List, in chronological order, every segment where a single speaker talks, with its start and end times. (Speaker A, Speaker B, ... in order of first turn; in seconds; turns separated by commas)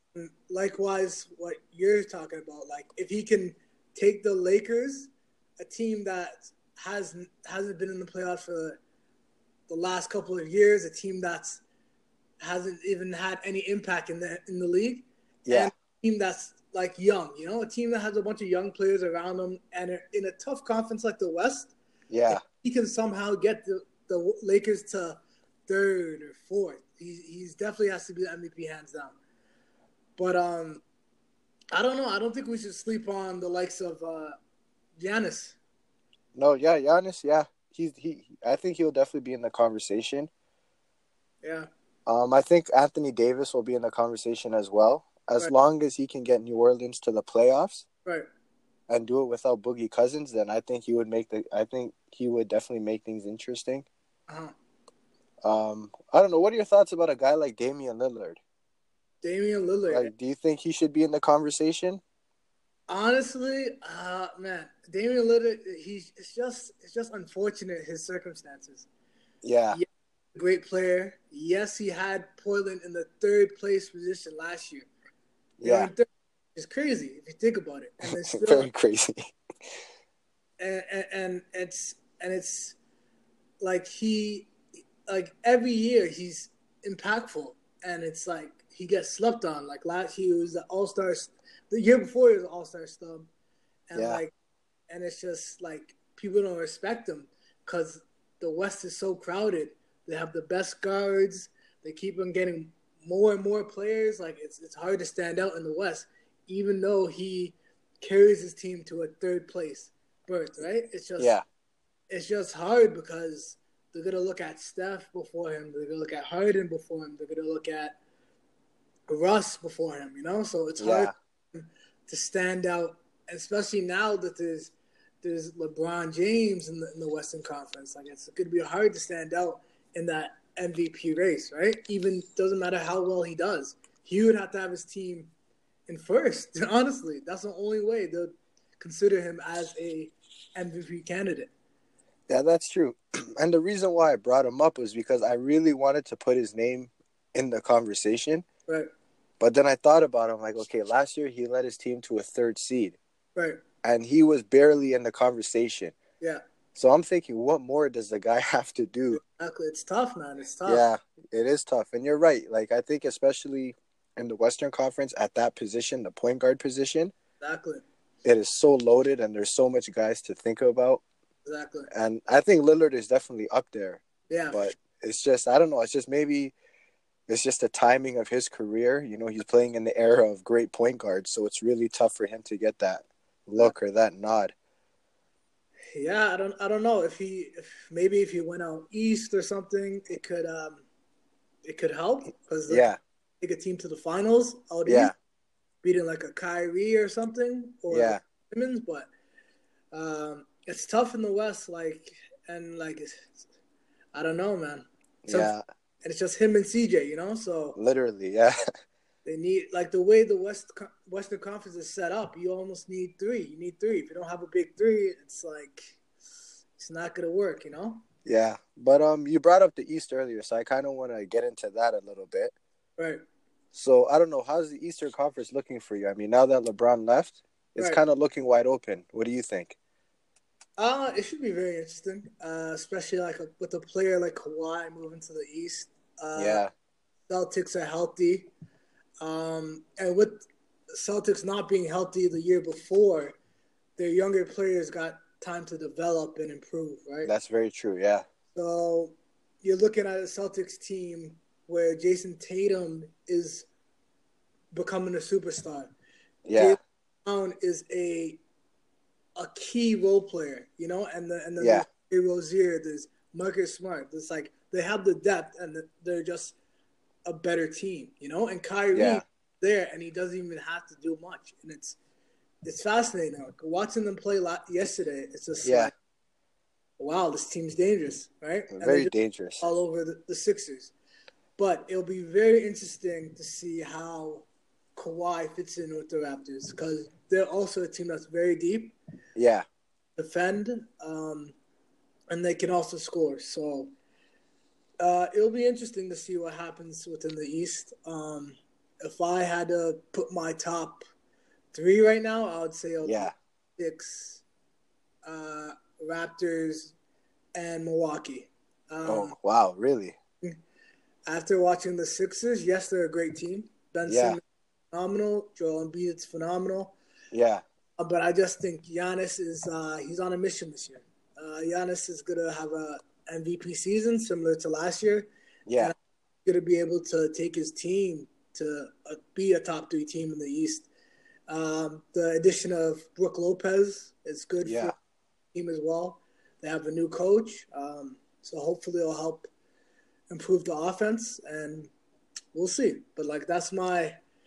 Speaker A: 0.1-8.8, Speaker A: 9.7-11.6, Speaker A: 12.4-21.7, Speaker B: 15.4-15.7, Speaker B: 22.1-22.4, Speaker A: 22.3-29.2, Speaker A: 30.2-30.8, Speaker A: 31.7-34.4, Speaker A: 35.0-35.6, Speaker B: 36.3-40.3, Speaker A: 41.4-41.7, Speaker B: 42.1-47.8, Speaker B: 48.9-53.9, Speaker A: 54.3-54.5, Speaker B: 55.4-58.4, Speaker A: 59.2-60.1, Speaker B: 59.9-62.0, Speaker A: 62.9-68.9, Speaker B: 69.4-69.8, Speaker A: 69.7-74.9, Speaker B: 75.6-75.9, Speaker A: 75.6-78.7, Speaker B: 78.3-79.2, Speaker A: 80.6-82.8, Speaker A: 83.6-84.5, Speaker A: 85.1-93.3, Speaker A: 93.9-94.3, Speaker B: 93.9-94.2, Speaker A: 94.9-111.3, Speaker B: 111.2-111.4, Speaker A: 112.1-118.0, Speaker A: 119.1-135.3, Speaker B: 120.8-121.1, Speaker A: 135.9-141.5, Speaker B: 142.3-148.4, Speaker B: 149.4-153.0, Speaker B: 153.8-155.9, Speaker B: 156.7-159.2, Speaker A: 159.1-160.8, Speaker B: 160.7-167.1, Speaker A: 167.4-167.8, Speaker B: 168.2-171.0, Speaker A: 171.4-171.9, Speaker B: 171.9-176.5, Speaker A: 174.3-174.7, Speaker B: 177.3-184.5, Speaker A: 185.9-190.8, Speaker A: 191.6-192.9, Speaker B: 192.7-193.0, Speaker A: 193.4-195.1, Speaker B: 194.8-195.1, Speaker A: 195.8-199.1, Speaker B: 197.9-198.2, Speaker A: 199.9-203.3, Speaker A: 204.1-205.5, Speaker B: 205.2-205.6, Speaker A: 206.0-207.8, Speaker B: 207.8-208.6, Speaker A: 209.2-216.0, Speaker A: 216.8-218.0, Speaker B: 218.2-222.5, Speaker B: 223.7-229.8, Speaker A: 230.8-236.6, Speaker B: 236.3-236.7, Speaker A: 237.3-238.5, Speaker A: 239.2-243.3, Speaker A: 244.0-247.3, Speaker B: 247.2-248.2, Speaker A: 248.5-253.7, Speaker A: 254.7-255.9, Speaker B: 256.4-256.8, Speaker A: 256.5-258.4, Speaker A: 259.4-266.6, Speaker B: 261.6-261.8, Speaker A: 267.2-272.0, Speaker B: 268.9-269.2, Speaker A: 272.6-275.9, Speaker B: 275.6-275.9, Speaker A: 277.0-280.9, Speaker B: 278.7-279.6, Speaker A: 281.6-288.9, Speaker B: 289.4-289.6, Speaker A: 290.2-291.5, Speaker A: 292.3-293.9, Speaker A: 295.0-301.0, Speaker A: 301.7-304.4, Speaker B: 303.0-303.3, Speaker A: 305.2-306.9, Speaker A: 307.5-309.3, Speaker B: 309.1-310.1, Speaker A: 311.3-314.4, Speaker B: 314.1-314.4, Speaker A: 314.9-316.9, Speaker B: 317.3-317.6, Speaker A: 318.0-330.9, Speaker B: 325.7-325.9, Speaker A: 331.5-334.9, Speaker B: 334.6-334.9, Speaker A: 335.5-339.5, Speaker A: 340.3-341.9, Speaker A: 342.5-344.2